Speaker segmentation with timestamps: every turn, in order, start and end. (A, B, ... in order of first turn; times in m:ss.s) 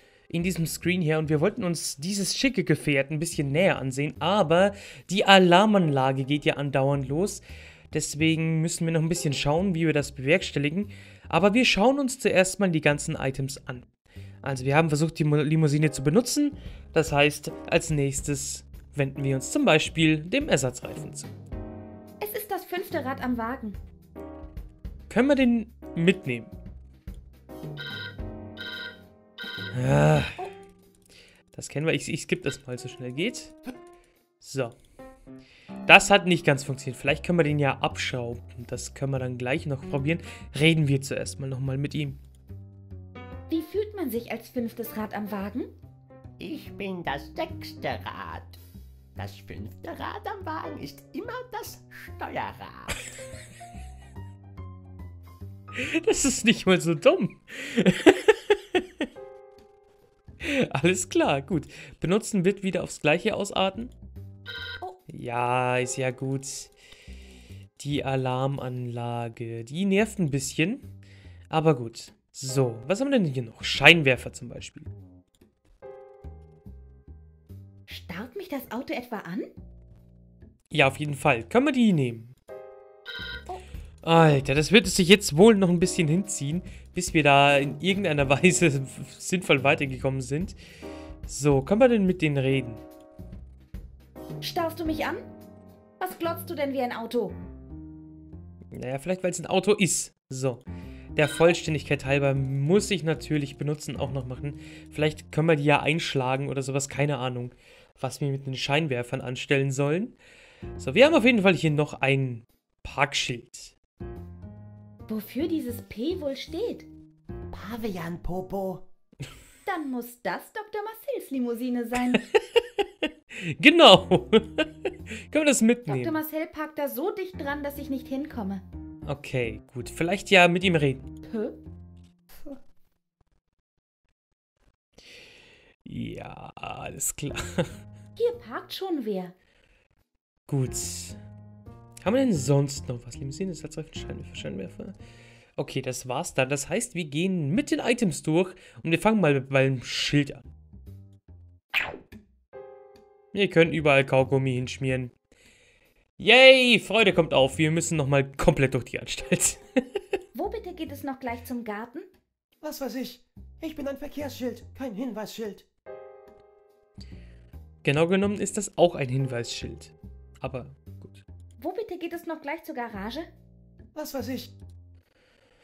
0:00.3-0:13.9 A
0:14.4-0:21.3 A
0:22.2-0:23.8 B
0:25.1-0:26.5 A
0:29.7-0:30.4 A
0:31.5-0:33.6 A
0:34.4-0:34.7 A
0:35.8-0:42.2 A
0:43.5-0:45.7 B
0:46.4-0:48.6 C
0:49.2-0:52.9 C
0:55.7-0:58.8 A
1:00.4-1:03.9 A
1:05.1-1:06.7 A
1:07.8-1:10.9 A
1:11.5-1:14.9 A
1:17.9-1:19.5 B
1:20.7-1:22.4 A
1:24.0-1:30.6 A
1:31.2-1:32.8 A
1:34.4-1:35.2 B
1:36.0-1:37.4 B
1:38.7-1:40.6 A
1:41.2-1:50.2 A
1:50.8-1:53.7 A
1:55.1-1:56.9 B
1:57.5-1:58.8 C
1:59.6-2:02.2 B
2:02.1-2:06.2 A
2:05.9-2:08.6 B
2:09.0-2:11.1 A
2:11.2-2:11.6 B
2:15.8-2:17.8 A
2:18.2-2:19.3 B
2:20.5-2:21.2 A
2:22.0-2:24.9 A
2:25.6-2:30.5 A
2:33.3-2:35.1 A
2:36.2-2:39.6 A
2:40.3-2:42.1 B
2:42.6-2:45.6 C
2:47.8-2:51.2 A
2:51.6-2:53.3 B
2:53.9-2:54.5 C